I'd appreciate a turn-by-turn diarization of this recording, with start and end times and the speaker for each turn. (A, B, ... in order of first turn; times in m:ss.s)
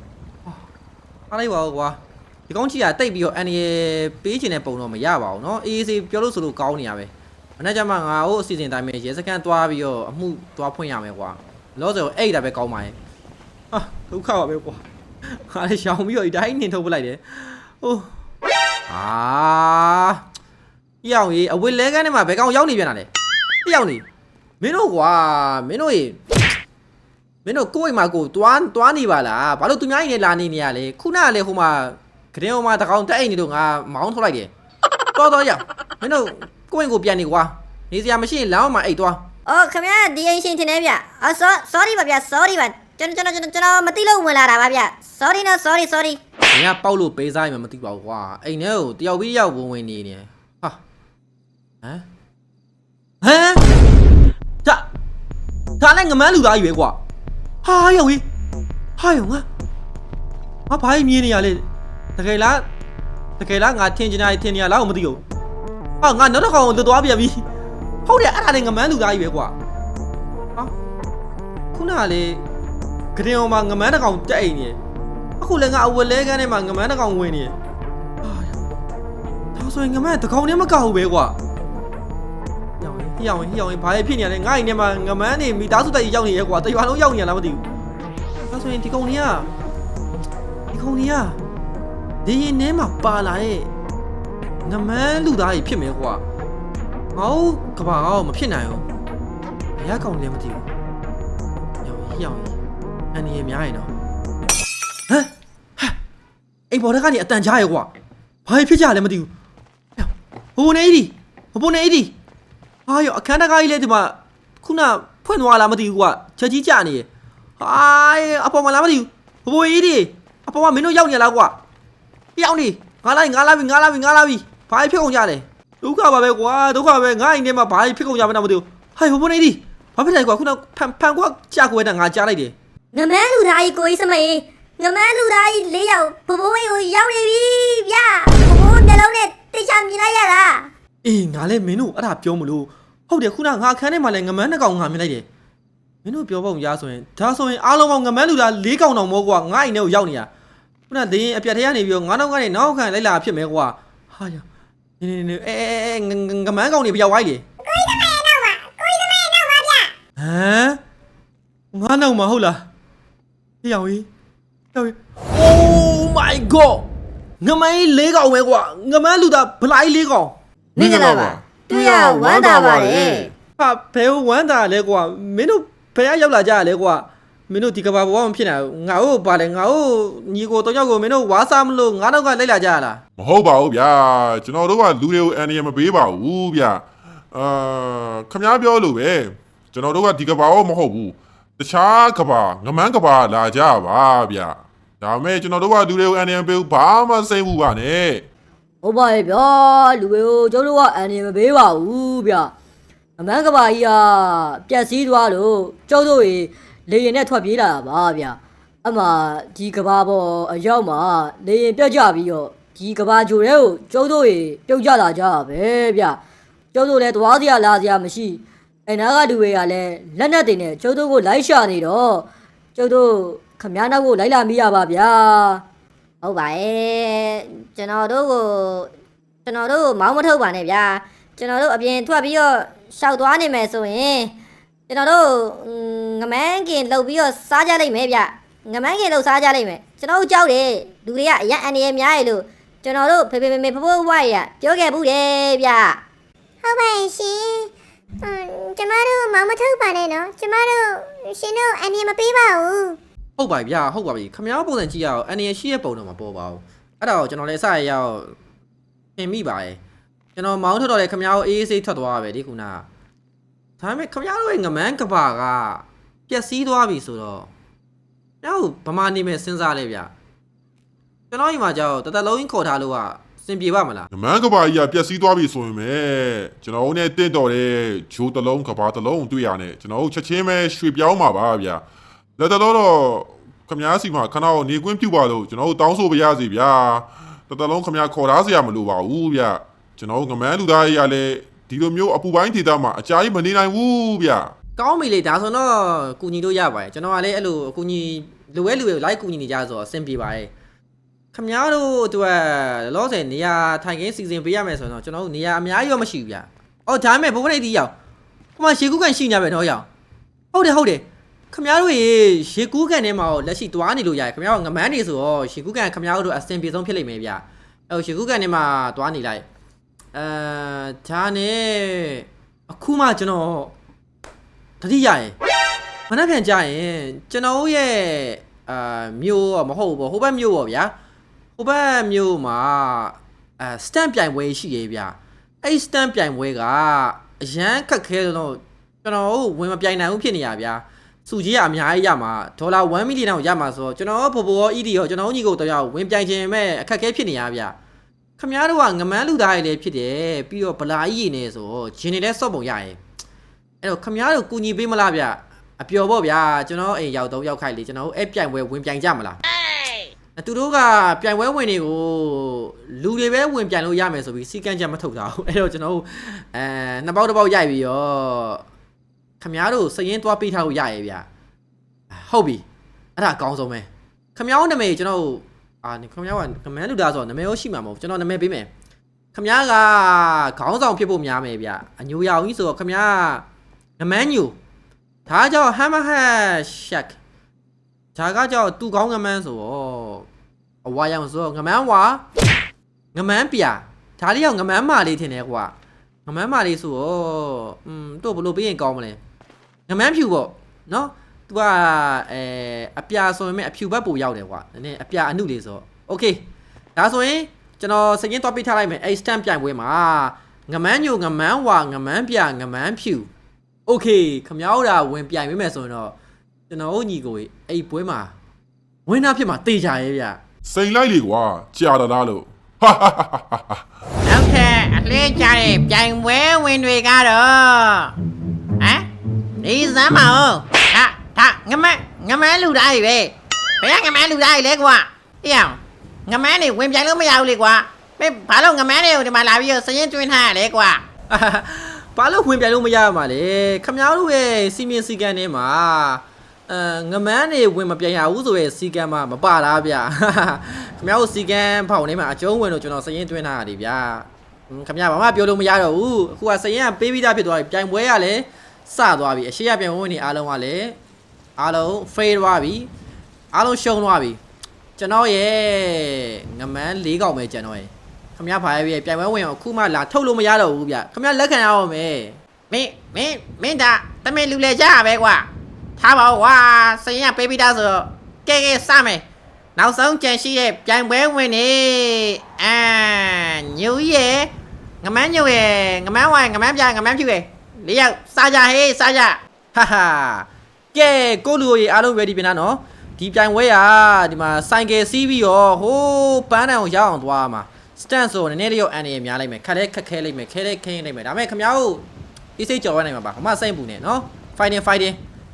0:01.3-0:13.0 A
0:13.7-0:18.1 A
0:18.9-0:20.2 A
0:21.0-0:23.1 A
0:23.6-0:24.0 A
0:24.6-0:26.2 A
0:27.4-0:34.5 A
0:35.2-0:39.2 A
0:39.5-0:46.2 B
0:46.5-0:50.8 A
0:53.2-0:53.6 A
0:55.8-0:57.0 A
0:57.6-0:58.2 A
0:59.0-0:59.5 A
1:00.7-1:01.6 A
1:02.2-1:02.6 A
1:03.4-1:05.2 A
1:06.0-1:07.4 A
1:08.0-1:09.5 A
1:11.7-1:12.4 A
1:13.1-1:14.8 A
1:15.4-1:17.5 A
1:18.2-1:18.5 A
1:19.5-1:21.4 A
1:22.8-1:27.6 A
1:28.5-1:29.5 A
1:30.7-1:31.4 A
1:32.2-1:33.7 A
1:34.6-1:36.2 A
1:37.1-1:38.9 A
1:39.8-1:40.7 A
1:41.8-1:42.6 A
1:43.1-1:43.9 A
1:45.1-1:46.0 A
1:46.7-1:47.9 A
1:48.5-1:49.3 A
1:50.0-1:52.1 A
1:52.9-1:57.1 A
1:57.6-2:01.6 A
2:02.4-2:12.5 A
2:12.9-2:20.7 B
2:21.0-2:25.2 A
2:26.0-2:30.3 A
2:30.9-2:34.4 A
2:35.0-2:37.4 A
2:37.6-2:39.9 C
2:40.2-2:40.8 A
2:41.7-2:42.6 A
2:43.6-2:44.1 A
2:44.7-2:46.9 A
2:47.4-2:50.4 A
2:50.8-2:53.3 B
2:50.8-2:53.3 D
2:53.6-3:03.0 A
3:03.2-3:18.2 D
3:18.8-3:22.5 B
3:23.2-3:36.2 B
3:36.7-3:45.6 B
3:46.2-3:48.9 B
3:49.4-3:54.3 B
3:54.9-4:06.0 B
4:06.6-4:07.7 C
4:08.2-4:13.0 C
4:13.4-4:18.3 A
4:19.2-4:19.8 A
4:20.4-4:22.9 A
4:23.8-4:27.5 A
4:28.4-4:30.1 A
4:31.3-4:34.1 A
4:34.1-4:41.8 D
4:42.4-4:54.5 D
4:54.8-5:00.5 A
5:01.3-5:07.9 A
5:08.6-5:09.9 A
5:10.5-5:19.4 A
5:20.1-5:23.7 A
5:24.8-5:25.4 A
5:26.1-5:31.0 A
5:31.6-5:47.8 A
5:48.4-5:53.0 A
5:53.8-5:59.4 A
6:00.4-6:08.6 A
6:09.4-6:11.3 A
6:12.1-6:12.6 A
6:13.2-6:18.7 A
6:19.3-6:23.5 A
6:24.0-6:24.6 A
6:25.3-6:27.2 A
6:28.2-6:30.3 A
6:30.8-6:32.2 A
6:33.1-6:35.7 A
6:36.2-6:39.2 A
6:39.9-6:46.4 A
6:47.0-6:53.3 A
6:53.9-6:56.2 A
6:56.7-6:58.3 A
6:59.1-7:00.4 A
7:00.6-7:03.8 D
7:04.2-7:08.1 E
7:08.8-7:09.0 E
7:09.6-7:21.0 E
7:21.3-7:41.0 A
7:41.6-7:42.9 A
7:43.5-7:44.4 A
7:45.0-7:52.4 A
7:52.7-7:59.2 E
7:59.8-8:04.5 E
8:05.0-8:09.4 E
8:09.7-8:22.0 A
8:22.6-8:25.2 A